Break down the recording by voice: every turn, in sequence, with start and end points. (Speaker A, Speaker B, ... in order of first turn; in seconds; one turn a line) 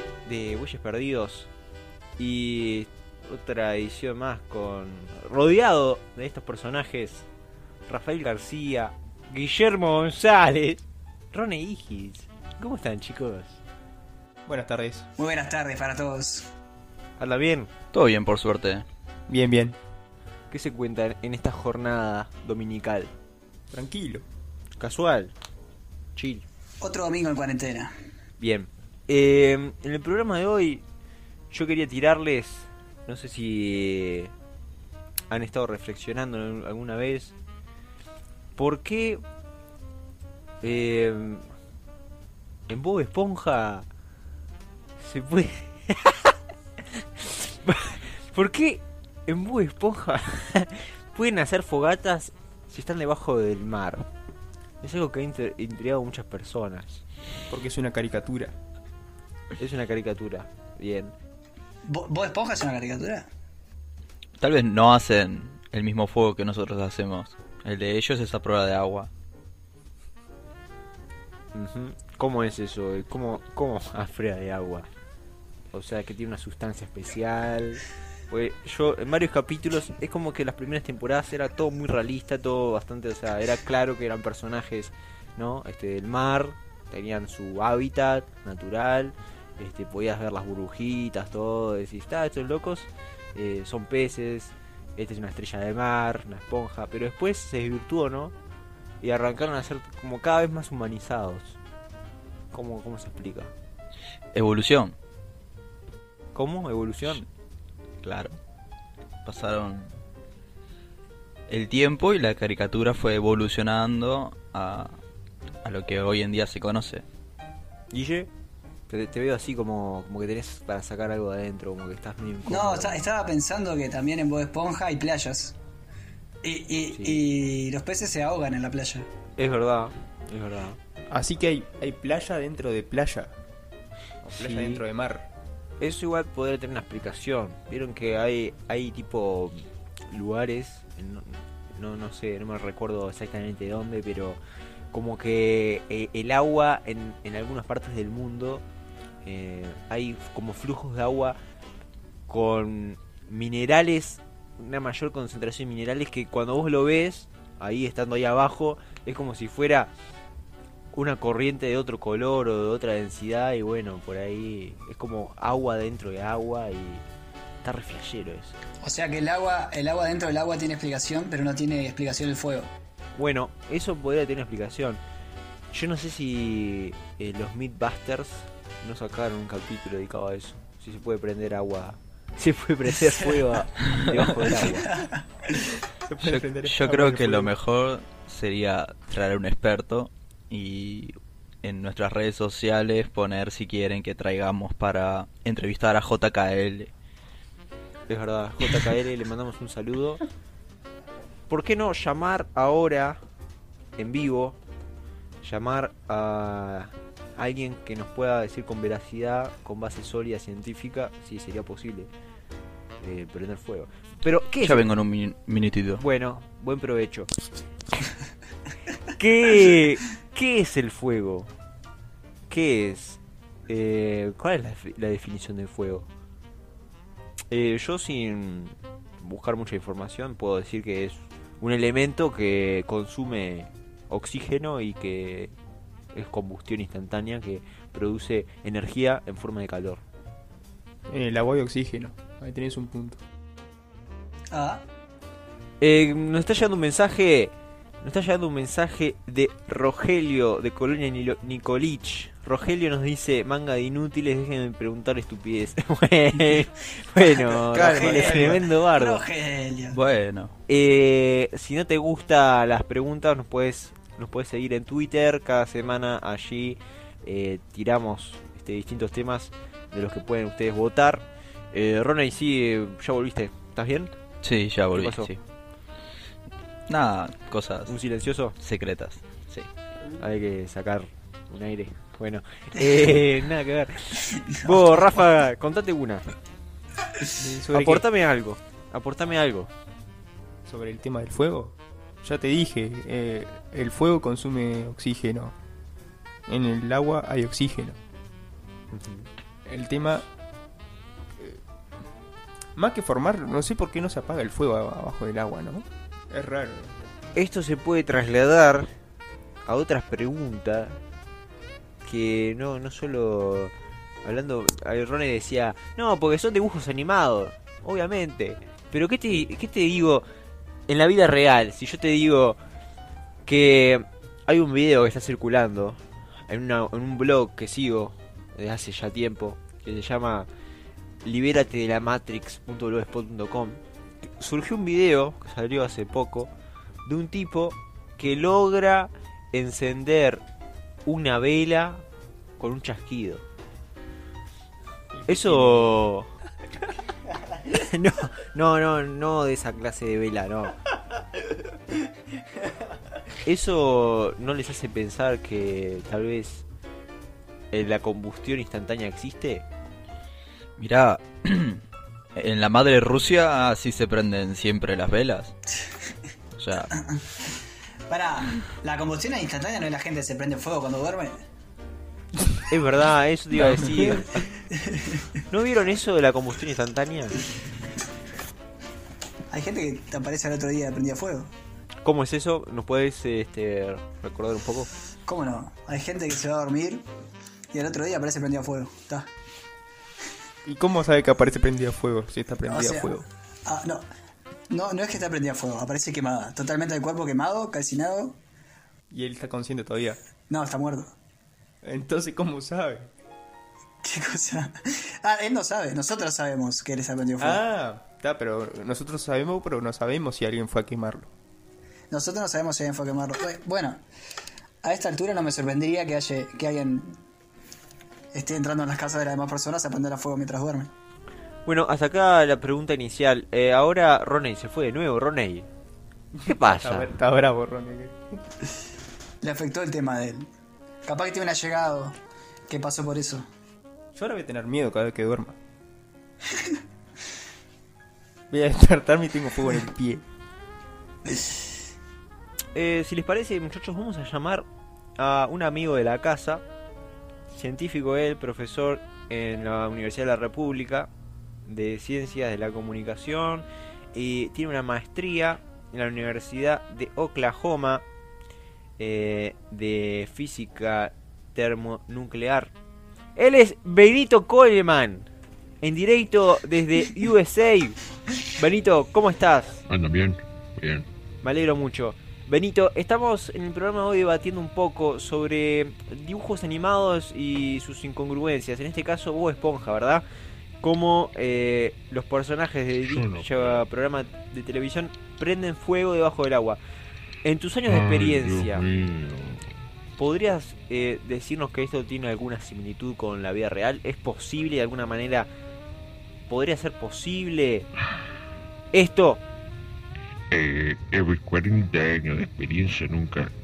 Speaker A: 0.2-1.5
Speaker A: 2.2-7.3
Speaker A: 7.9-13.6
Speaker B: 14.5-15.1
Speaker C: 15.2-16.5
Speaker A: 17.2-17.7
Speaker D: 17.9-18.9
Speaker B: 19.3-19.8
Speaker A: 20.5-23.1
Speaker B: 23.7-24.3
Speaker A: 24.8-25.3
Speaker A: 26.2-26.4
Speaker C: 26.8-27.9
Speaker A: 28.4-30.8
Speaker A: 31.5-34.3
Speaker A: 35.3-37.4
Speaker A: 38.6-39.2
Speaker A: 40.6-41.5
Speaker A: 42.7-43.9
Speaker A: 45.0-46.3
Speaker A: 47.0-54.0
Speaker A: 54.8-57.0
Speaker B: 57.5-58.5
Speaker A: 59.6-61.1
Speaker C: 61.9-63.3
Speaker D: 64.4-69.1
Speaker A: 71.5-74.9
Speaker A: 75.7-98.3
Speaker A: 99.0-101.6
Speaker A: 102.5-103.5
Speaker D: 104.3-105.0
Speaker A: 106.3-107.2
Speaker D: 108.0-108.4
Speaker D: 109.2-110.0
Speaker D: 111.5-115.0
Speaker D: 115.6-117.0
Speaker A: 117.9-118.3
Speaker A: 118.9-123.0
Speaker C: 122.5-125.6
Speaker C: 126.4-129.1
Speaker A: 126.9-127.2
Speaker A: 129.4-130.8
Speaker B: 131.1-133.4
Speaker B: 134.2-135.3
Speaker A: 134.3-134.8
Speaker A: 135.8-144.4
Speaker A: 144.9-148.6
Speaker A: 149.2-151.4
Speaker A: 152.3-159.9
Speaker A: 160.9-167.0
Speaker A: 167.6-168.6
Speaker C: 168.8-172.7
Speaker A: 173.2-175.0
Speaker A: 175.7-184.9
Speaker C: 184.7-185.2
Speaker B: 186.1-187.5
Speaker D: 186.2-196.9
Speaker A: 198.1-200.2
Speaker A: 201.5-203.2
Speaker A: 204.0-204.6
Speaker A: 205.4-212.1
Speaker A: 213.0-214.8
Speaker D: 214.6-216.0
Speaker A: 216.0-217.3
Speaker A: 219.2-221.5
Speaker A: 222.5-226.1
Speaker A: 227.5-235.6
Speaker A: 236.1-240.0
Speaker B: 241.1-243.2
Speaker C: 244.5-244.8
Speaker A: 245.8-259.2
Speaker C: 257.2-260.0
Speaker D: 257.8-258.6
Speaker D: 259.9-260.5
Speaker A: 260.7-274.1
Speaker D: 274.4-275.4
Speaker A: 274.9-275.3
Speaker D: 276.9-277.9
Speaker A: 277.9-278.5
Speaker D: 278.6-279.7
Speaker A: 280.2-286.3
Speaker C: 284.5-285.2
Speaker B: 287.4-288.1
Speaker A: 287.7-289.7
Speaker B: 290.6-295.6
Speaker B: 296.5-298.0
Speaker A: 298.9-299.3
Speaker B: 299.6-300.3
Speaker B: 302.8-307.0
Speaker A: 307.4-308.9
Speaker A: 309.7-311.0
Speaker A: 312.1-313.7
Speaker A: 314.2-320.2
Speaker A: 320.9-322.6
Speaker A: 323.5-330.5
Speaker A: 331.2-333.8
Speaker A: 334.4-336.5
Speaker A: 337.1-340.4
Speaker A: 341.1-342.0
Speaker A: 342.6-343.4
Speaker B: 345.1-346.0
Speaker A: 345.3-346.3
Speaker A: 347.7-350.7
Speaker A: 353.4-356.6
Speaker A: 357.7-359.7
Speaker D: 360.8-361.8
Speaker D: 362.4-365.6
Speaker D: 366.6-366.9
Speaker C: 368.1-371.4
Speaker A: 372.7-374.4
Speaker B: 373.7-374.2
Speaker C: 374.7-375.3
Speaker A: 375.5-377.4
Speaker C: 379.5-381.5
Speaker A: 382.1-384.9
Speaker C: 385.3-387.1
Speaker C: 387.7-389.3
Speaker B: 390.6-393.3
Speaker C: 392.7-394.1
Speaker C: 394.7-398.4
Speaker B: 399.1-400.2
Speaker C: 400.5-401.1
Speaker B: 401.8-403.1
Speaker C: 404.0-407.6
Speaker B: 407.4-411.3
Speaker C: 412.1-414.0
Speaker C: 414.8-417.2
Speaker C: 418.3-420.9
Speaker A: 421.7-425.7
Speaker B: 426.3-428.2
Speaker A: 426.5-427.1
Speaker C: 429.4-430.5
Speaker C: 431.1-433.5
Speaker B: 434.1-435.6
Speaker B: 438.5-440.2
Speaker A: 442.8-444.7
Speaker A: 445.2-446.6
Speaker A: 447.5-451.1
Speaker A: 451.7-458.0
Speaker A: 459.0-462.7
Speaker A: 463.4-465.3
Speaker A: 465.8-468.0
Speaker A: 468.5-469.8
Speaker E: 469.9-471.1
Speaker A: 471.4-480.2
Speaker A: 480.8-486.8
Speaker E: 483.0-483.9
Speaker A: 487.4-488.9
Speaker E: 487.9-489.6
Speaker A: 490.2-495.5
Speaker A: 496.5-497.9
Speaker A: 498.9-499.4
Speaker E: 500.5-503.5